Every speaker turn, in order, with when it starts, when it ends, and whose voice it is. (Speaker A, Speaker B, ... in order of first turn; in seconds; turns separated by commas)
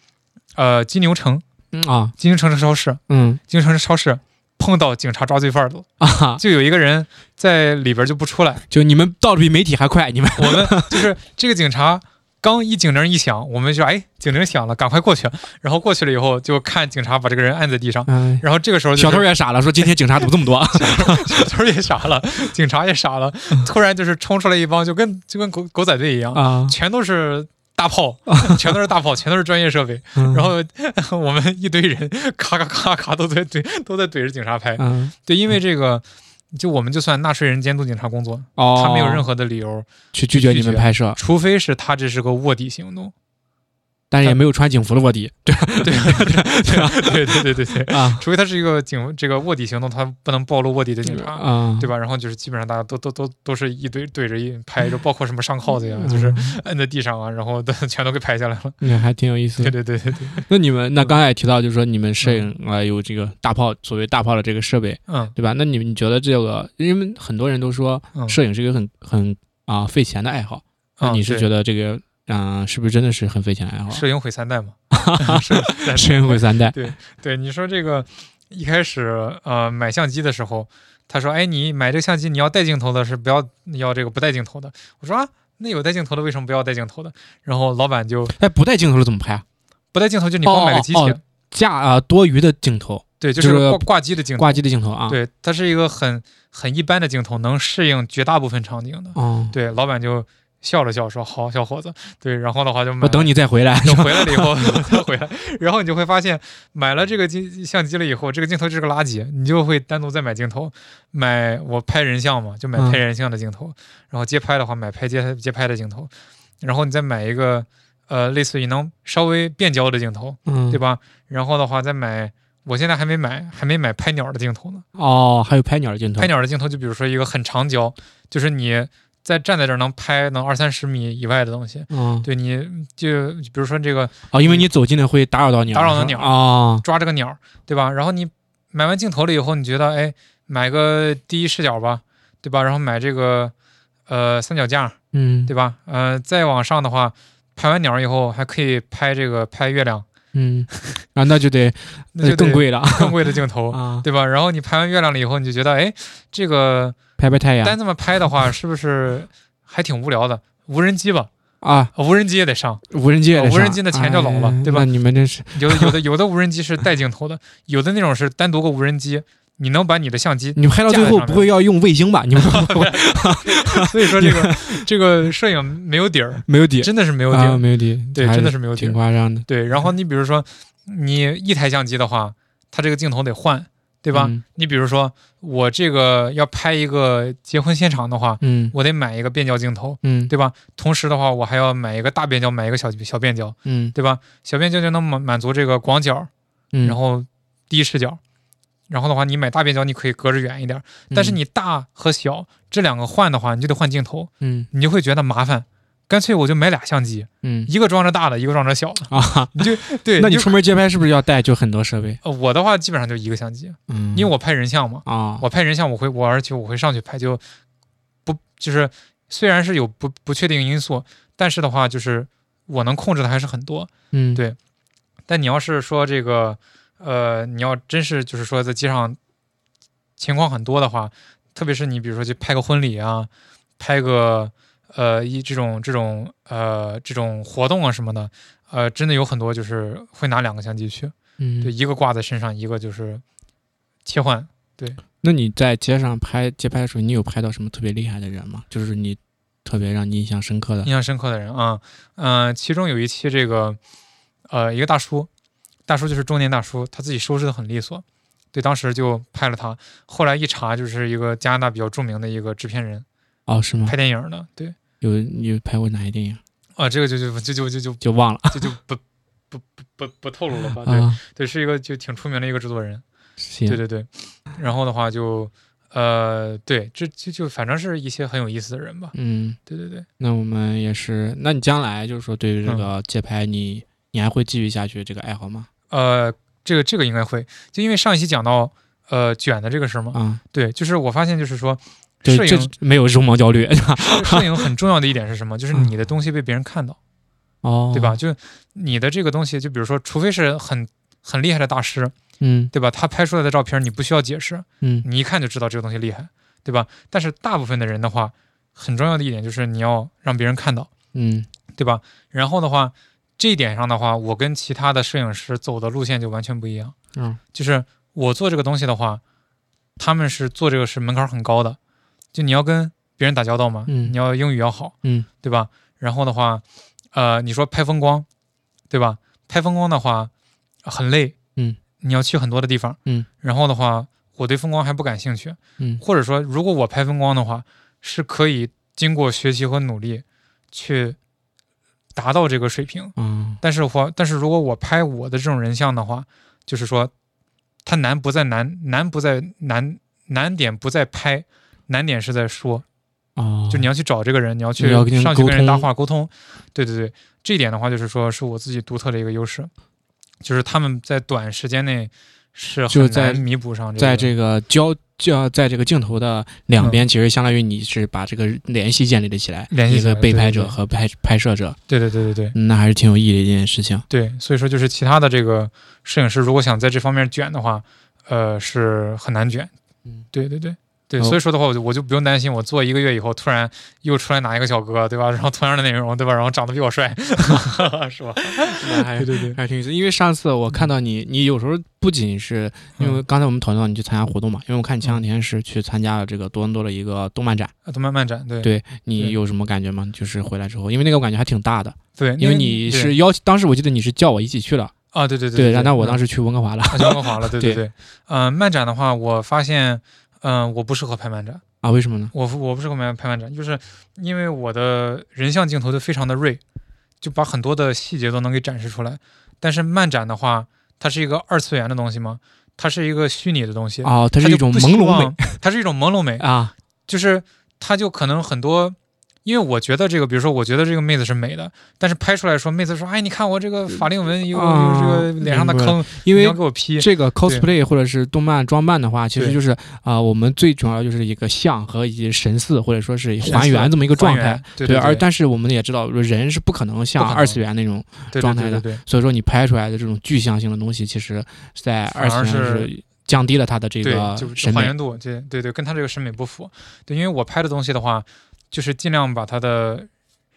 Speaker A: 0.6-1.4, Speaker B: 1.7-2.1, Speaker A: 2.2-8.6, Speaker B: 3.1-3.4, Speaker B: 6.0-6.4, Speaker B: 8.7-11.1, Speaker A: 10.4-19.2, Speaker B: 18.1-18.4, Speaker B: 18.9-21.5, Speaker A: 19.8-43.1, Speaker B: 26.3-26.8, Speaker B: 28.3-28.6, Speaker B: 30.1-30.5, Speaker B: 34.8-35.1, Speaker B: 38.5-39.2, Speaker B: 40.1-41.2, Speaker B: 44.1-48.2, Speaker A: 45.8-58.8, Speaker B: 51.0-51.9, Speaker B: 55.7-56.6, Speaker B: 58.8-59.8, Speaker A: 59.6-60.5, Speaker B: 60.3-74.0, Speaker A: 62.2-62.5, Speaker A: 65.1-65.3, Speaker A: 68.1-68.4, Speaker A: 71.0-71.5, Speaker A: 73.9-88.3, Speaker B: 74.9-76.8, Speaker B: 88.4-89.4, Speaker A: 89.9-91.2, Speaker B: 90.4-95.2, Speaker A: 93.2-103.3, Speaker B: 99.1-99.5, Speaker B: 103.0-105.0, Speaker A: 103.8-124.8, Speaker B: 112.8-113.0, Speaker B: 120.5-120.8, Speaker B: 124.9-126.3, Speaker A: 126.2-134.6, Speaker B: 131.9-132.3, Speaker B: 134.3-136.8, Speaker A: 135.7-143.5, Speaker A: 144.1-150.1, Speaker B: 145.1-145.5, Speaker B: 150.3-154.0, Speaker A: 152.2-157.0, Speaker B: 157.2-157.8, Speaker A: 157.6-161.3, Speaker B: 161.6-161.9, Speaker A: 161.9-162.8, Speaker B: 162.9-165.9, Speaker A: 163.3-164.8, Speaker A: 165.5-171.5, Speaker B: 170.6-174.9, Speaker A: 172.3-196.3, Speaker B: 176.4-179.9, Speaker B: 184.1-184.4, Speaker B: 188.4-188.7, Speaker B: 190.0-190.3, Speaker B: 193.7-193.9, Speaker B: 196.7-197.0, Speaker A: 196.8-198.2, Speaker A: 198.9-210.5, Speaker B: 201.1-201.4, Speaker B: 204.4-204.7, Speaker B: 207.4-207.7, Speaker B: 209.1-212.2, Speaker A: 212.2-217.4, Speaker B: 213.9-214.3, Speaker B: 215.1-215.4, Speaker A: 218.2-224.6, Speaker B: 224.1-224.4, Speaker A: 225.3-229.2, Speaker A: 230.2-243.2, Speaker B: 241.4-241.7, Speaker A: 244.0-245.0, Speaker B: 245.2-250.9, Speaker A: 250.8-253.8, Speaker A: 254.5-255.3, Speaker A: 255.9-263.0, Speaker B: 263.5-263.9, Speaker A: 263.9-264.7, Speaker B: 265.0-266.4, Speaker A: 266.8-273.0, Speaker B: 268.0-268.7, Speaker B: 270.9-271.2, Speaker B: 273.4-273.8, Speaker A: 273.6-279.1, Speaker B: 279.1-279.6, Speaker A: 279.7-280.1, Speaker B: 280.2-285.7, Speaker A: 285.9-292.7, Speaker B: 290.1-290.4, Speaker B: 292.2-294.5, Speaker A: 294.0-297.0, Speaker B: 297.6-298.2, Speaker A: 297.9-302.1, Speaker B: 302.4-302.7, Speaker A: 302.7-310.9, Speaker B: 304.8-305.1, Speaker B: 311.1-311.5, Speaker A: 311.8-316.9, Speaker A: 317.5-319.2, Speaker A: 320.0-321.8, Speaker A: 322.3-328.3, Speaker B: 323.9-324.2, Speaker A: 328.9-330.3, Speaker A: 330.8-331.4, Speaker A: 332.0-341.2, Speaker A: 342.1-347.1, Speaker B: 343.1-343.6, Speaker A: 347.8-352.8, Speaker B: 353.4-353.9, Speaker A: 353.7-359.7, Speaker B: 354.8-355.9, Speaker A: 360.4-364.3, Speaker B: 362.9-363.4, Speaker B: 364.0-371.8, Speaker A: 366.8-367.0, Speaker A: 369.7-370.8, Speaker A: 371.9-372.5, Speaker B: 372.5-374.0, Speaker A: 374.1-379.7, Speaker A: 380.3-389.6, Speaker B: 388.8-397.7, Speaker A: 393.0-393.2, Speaker A: 397.9-399.4, Speaker B: 398.6-404.9, Speaker A: 402.2-403.1, Speaker A: 405.1-406.2, Speaker B: 405.5-407.8, Speaker A: 406.9-411.6, Speaker B: 411.8-412.3, Speaker A: 412.3-416.6, Speaker A: 417.2-426.4, Speaker B: 424.0-425.6, Speaker B: 426.4-426.7, Speaker A: 427.1-437.6, Speaker B: 433.9-454.9, Speaker A: 443.4-445.2, Speaker A: 447.2-447.6, Speaker A: 448.3-449.0, Speaker A: 452.1-452.9, Speaker A: 454.0-460.1